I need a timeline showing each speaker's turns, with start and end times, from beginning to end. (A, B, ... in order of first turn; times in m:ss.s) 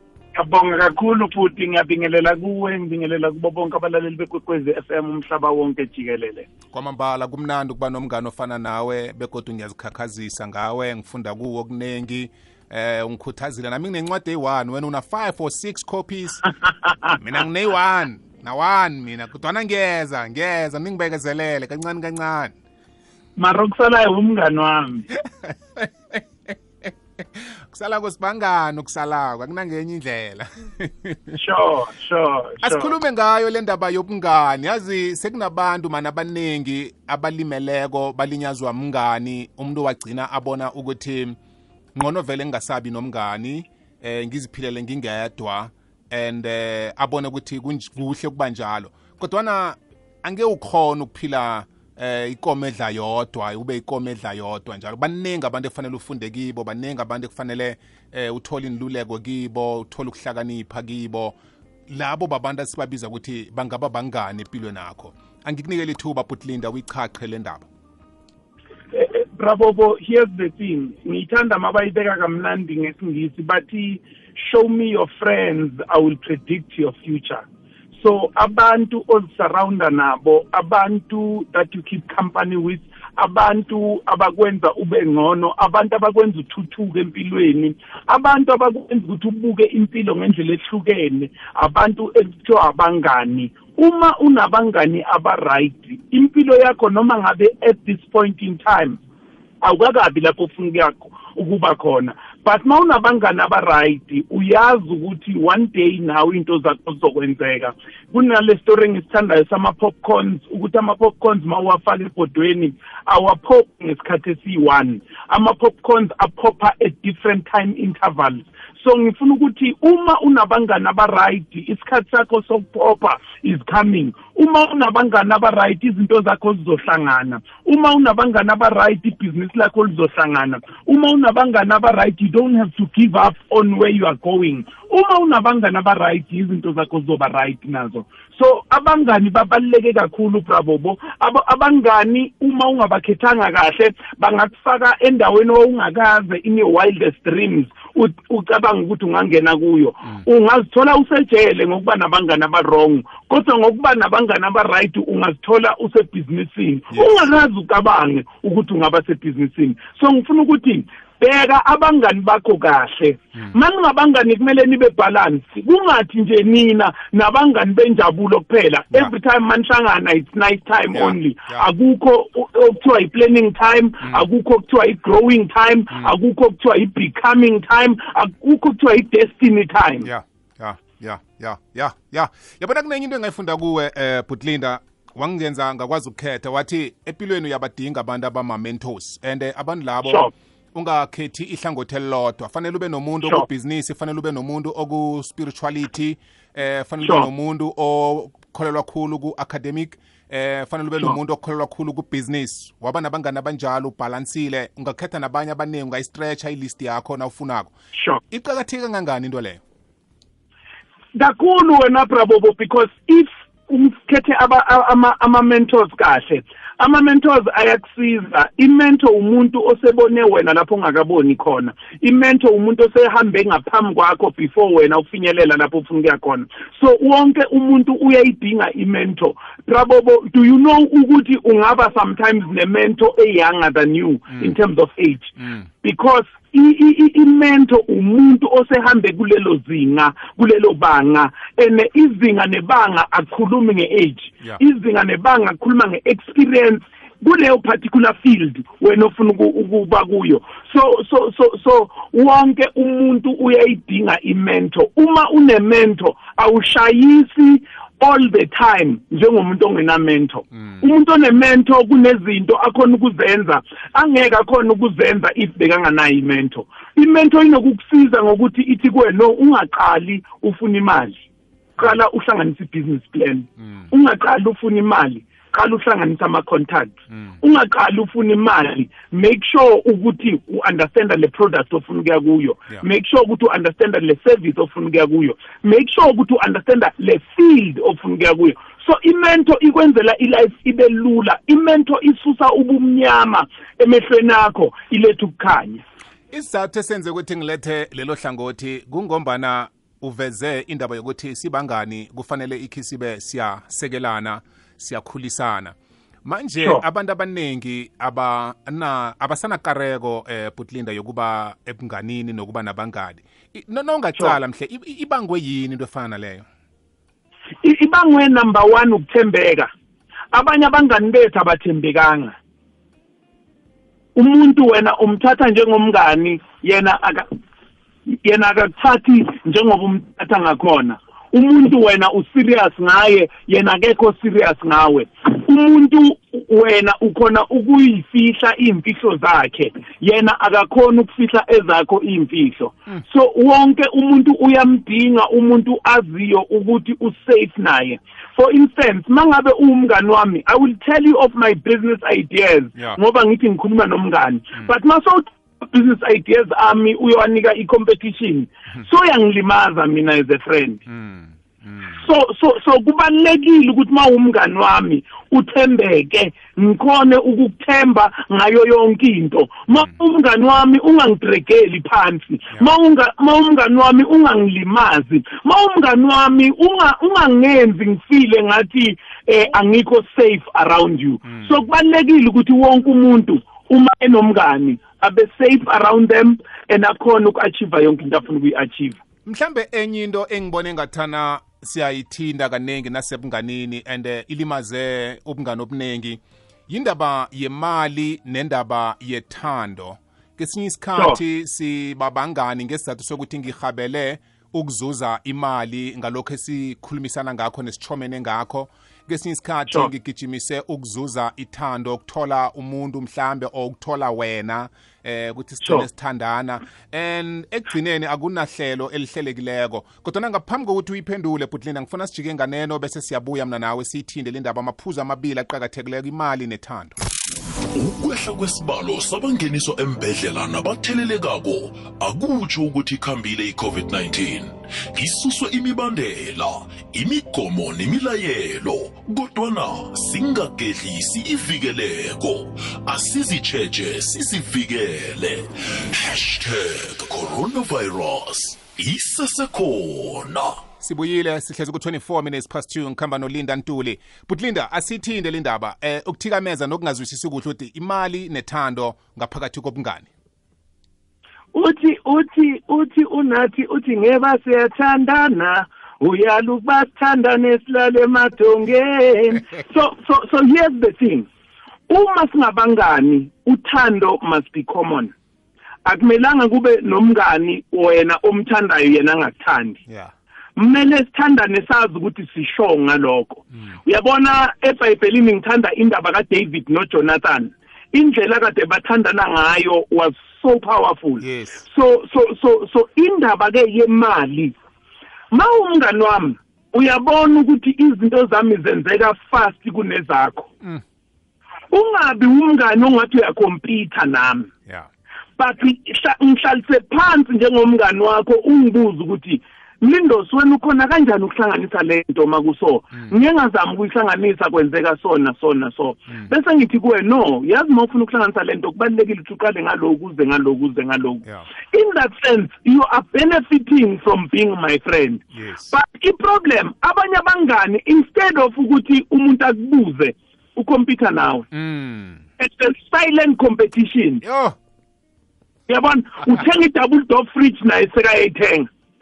0:00.3-0:06.5 A
0:06.7-0:16.5 B
0:17.1-0:22.5 B
0:23.4-0:25.1 A
0:25.1-0:31.4 B
0:31.3-0:32.9 A
0:32.6-0:41.4 B
0:41.9-1:01.4 B
1:01.9-1:07.7 B
1:08.9-1:17.4 A
1:17.9-1:39.0 A
1:39.6-3:00.0 A
2:36.9-2:37.2 B
2:50.9-2:51.7 B
3:00.0-3:27.7 B
3:10.0-3:10.3 A
3:17.0-3:17.3 A
3:27.9-3:28.2 A
3:28.3-3:29.6 B
3:31.1-4:31.2 A
4:31.8-4:55.8 A
4:33.6-4:33.9 B
4:56.3-5:16.4 B
5:17.6-5:19.7 A
5:20.3-5:22.3 A
5:24.2-5:27.3 A
5:28.2-6:00.8 A
6:00.9-6:02.0 B
6:01.9-6:29.0 A
6:29.2-7:06.9 B
6:55.6-6:55.9 A
7:07.7-7:30.6 C
7:30.8-7:40.1 B
7:41.5-7:51.3 A
7:51.9-7:55.1 A
7:55.8-7:59.8 A
7:59.9-8:00.1 B
8:00.6-8:14.5 A
8:11.2-8:11.6 B
8:15.3-8:20.5 A
8:21.7-8:24.5 A
8:25.4-8:51.5 A
8:45.3-8:45.7 B
8:51.5-8:52.2 B
8:52.4-8:54.2 A
8:54.2-8:54.6 B
8:55.7-8:58.7 A